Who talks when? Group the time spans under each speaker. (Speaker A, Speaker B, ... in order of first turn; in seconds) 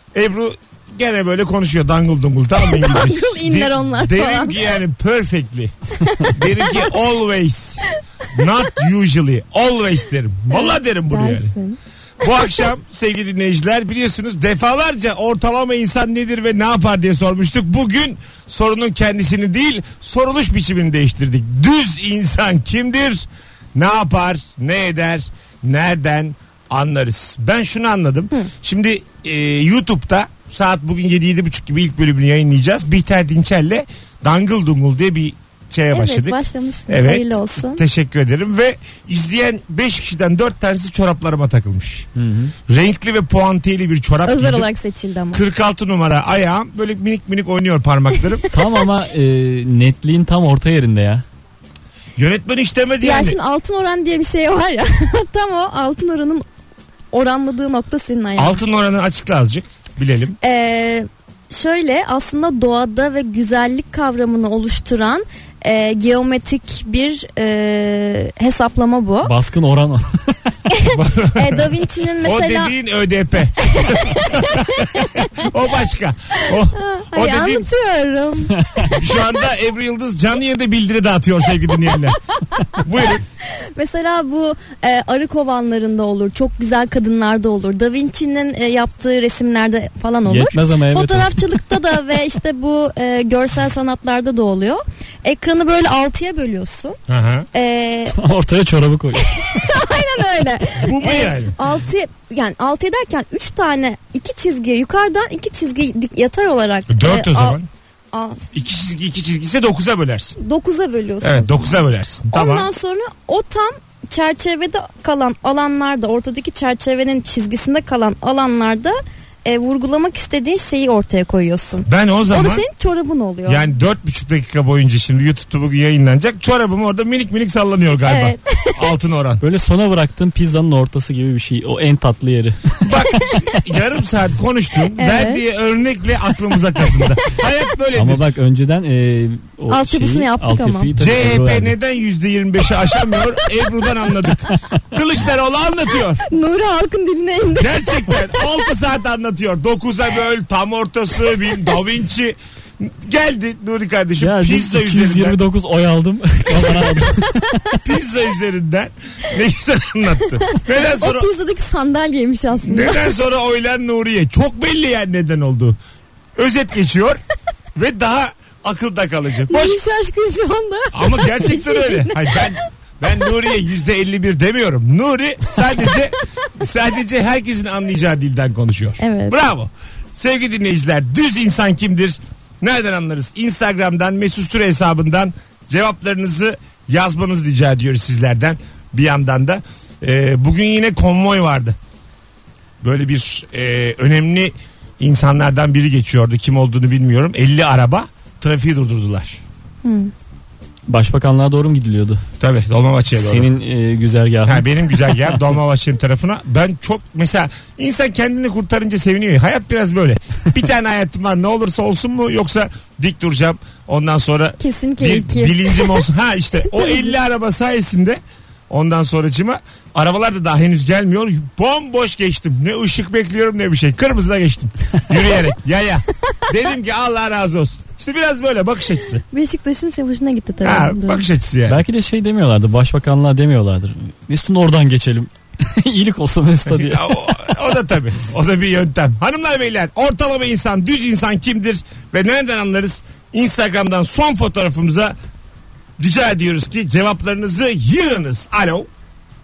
Speaker A: 0.1-11.5, 12.2-42.1, 42.7-44.7, 45.3-48.4, 52.2-53.4, 58.4-60.4, 70.9-77.7, 78.9-82.2, 82.8-83.2, 97.1-97.5, 100.8-101.6, 106.9-107.7, 108.5-110.4, 111.2-112.7, 121.8-122.7, 123.5-129.4, 132.8-138.2, 141.0-146.2, 147.5-155.4, 157.8-161.3, 162.6-165.8, 166.4-167.2, 167.8-169.8, 170.9-191.8, 192.8-199.4, 202.4-203.5, 204.4-229.2, 230.6-231.8, 236.7-245.2, 246.0-248.9
Speaker B: 2.6-4.5, 6.1-6.4, 10.5-11.8, 35.9-37.8, 44.2-45.4, 53.0-56.4, 57.1-58.6, 60.4-69.3, 70.7-72.7, 73.7-75.5, 76.4-78.6, 83.4-97.0, 97.5-98.2, 99.4-107.6, 108.1-108.5, 110.4-111.8, 112.3-123.7, 128.1-128.8, 135.0-135.4, 139.7-140.9, 146.3-148.4, 160.4-163.1, 169.5-172.6, 179.0-179.4, 199.8-200.1, 214.6-216.0, 216.7-217.2, 229.3-231.2
Speaker C: 42.2-42.5, 48.5-51.2, 69.2-70.3, 78.6-78.9, 90.3-91.6, 98.2-99.7, 129.4-132.8, 137.9-141.7, 154.2-157.6, 200.9-202.2, 203.1-205.4, 231.7-237.2